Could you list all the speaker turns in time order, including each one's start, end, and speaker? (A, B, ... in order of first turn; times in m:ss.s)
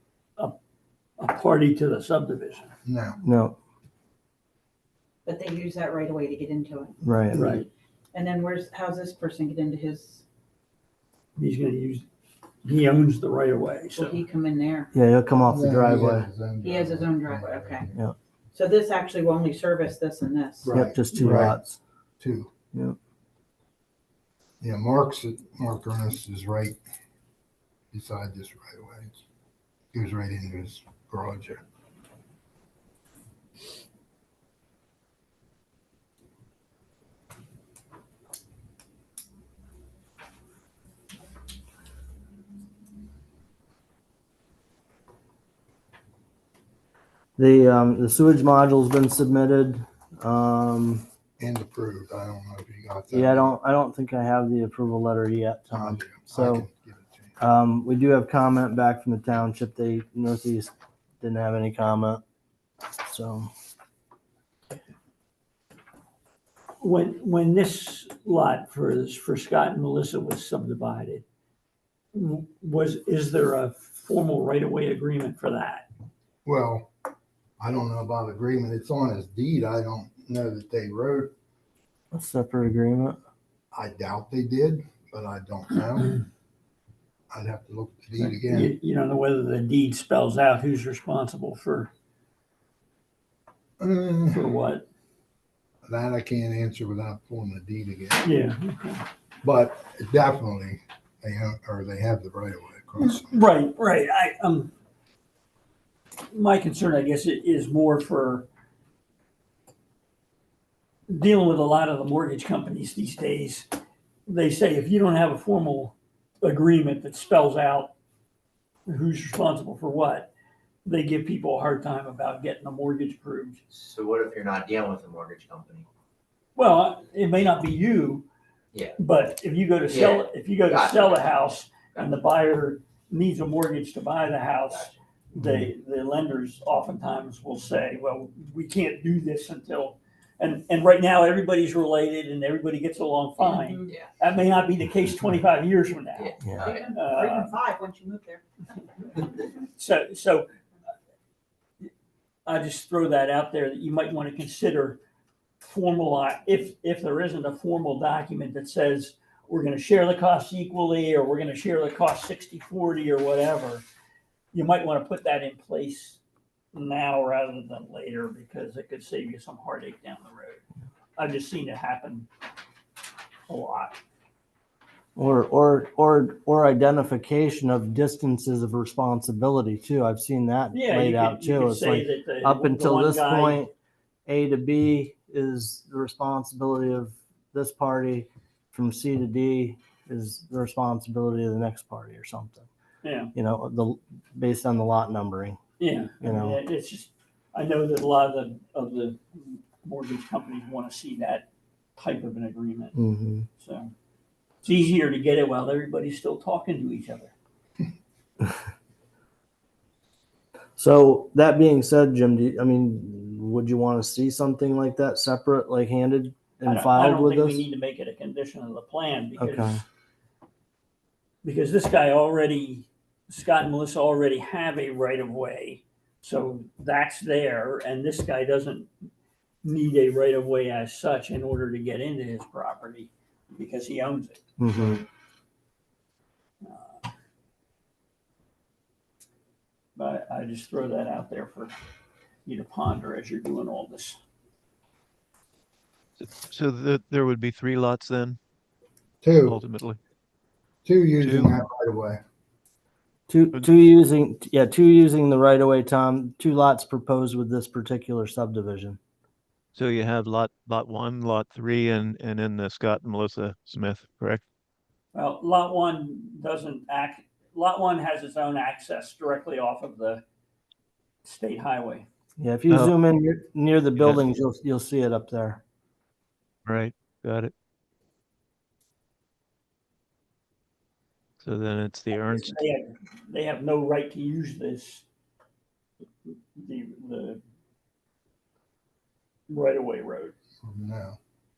0:01.2-0:02.7 A
0:02.8-0:03.2 B
0:03.2-0:03.6 C
0:05.2-0:07.6 D
0:07.0-0:07.5 C
0:07.3-0:07.7 A
0:08.1-0:10.2 D
0:11.4-0:12.1 A
0:12.6-0:14.2 A
0:14.0-0:14.9 D
0:14.9-0:16.3 C
0:15.5-0:17.9 B
0:16.6-0:17.9 D
0:18.5-0:20.8 D
0:20.6-0:21.5 A
0:20.7-0:21.6 B
0:20.7-0:21.8 C
0:22.2-0:22.5 B
0:24.6-0:26.8 B
0:27.9-0:29.2 B
0:29.9-0:31.6 B
0:47.4-0:51.0 C
0:51.4-0:53.5 B
0:53.1-0:56.7 C
0:55.7-0:57.4 B
0:57.4-1:02.2 C
1:03.1-1:03.5 C
1:06.8-1:11.2 A
1:12.1-1:15.9 A
1:16.4-1:16.9 B
1:17.6-1:21.3 B
1:22.1-1:23.2 C
1:23.7-1:26.2 B
1:27.3-1:28.7 B
1:28.2-1:31.9 A
1:33.8-1:34.4 B
1:34.3-1:34.9 A
1:35.9-1:38.2 B
1:38.2-1:39.0 A
1:39.4-1:43.3 B
1:43.0-1:44.7 A
1:46.3-1:48.5 A
1:51.1-1:53.7 A
1:54.3-1:57.9 A
1:58.9-2:00.3 A
2:00.8-2:03.6 A
2:03.7-2:05.9 E
2:06.6-2:08.3 A
2:09.0-2:27.5 A
2:09.9-2:11.3 E
2:14.7-2:15.0 E
2:23.4-2:24.0 D
2:26.2-2:26.8 E
2:26.4-2:26.7 C
2:26.5-2:28.4 D
2:29.6-2:30.5 A
2:32.5-2:35.0 A
2:35.6-2:43.8 A
2:44.5-2:46.2 A
2:46.7-2:50.6 A
2:51.2-2:52.3 A
2:53.5-2:54.0 A
2:55.2-3:03.7 C
3:00.7-3:03.6 A
3:04.3-3:12.7 C
3:13.0-3:13.3 A
3:13.3-3:15.6 C
3:15.8-3:23.0 A
3:16.2-3:16.6 C
3:23.0-3:23.5 C
3:23.6-3:23.9 A
3:24.6-3:27.3 A
3:30.8-3:37.7 C
3:36.7-3:39.8 A
3:39.4-3:39.8 C
3:41.4-3:48.9 A
3:49.6-3:55.0 A
3:54.6-3:55.0 C
3:56.6-3:57.0 A
4:00.0-4:01.7 A
4:02.5-4:04.2 A
4:06.2-4:08.4 F
4:09.2-4:09.6 B
4:09.4-4:10.0 F
4:10.9-4:12.2 B
4:11.2-4:11.5 F
4:13.3-4:19.0 C
4:19.8-4:24.4 F
4:25.1-4:30.2 A
4:31.2-4:32.1 A
4:32.4-4:35.6 C
4:34.0-4:34.2 F
4:36.6-4:37.5 F
4:41.4-4:42.6 F
4:42.2-4:45.0 A
4:46.3-4:47.4 A
4:49.5-4:50.3 A
4:50.6-4:51.2 B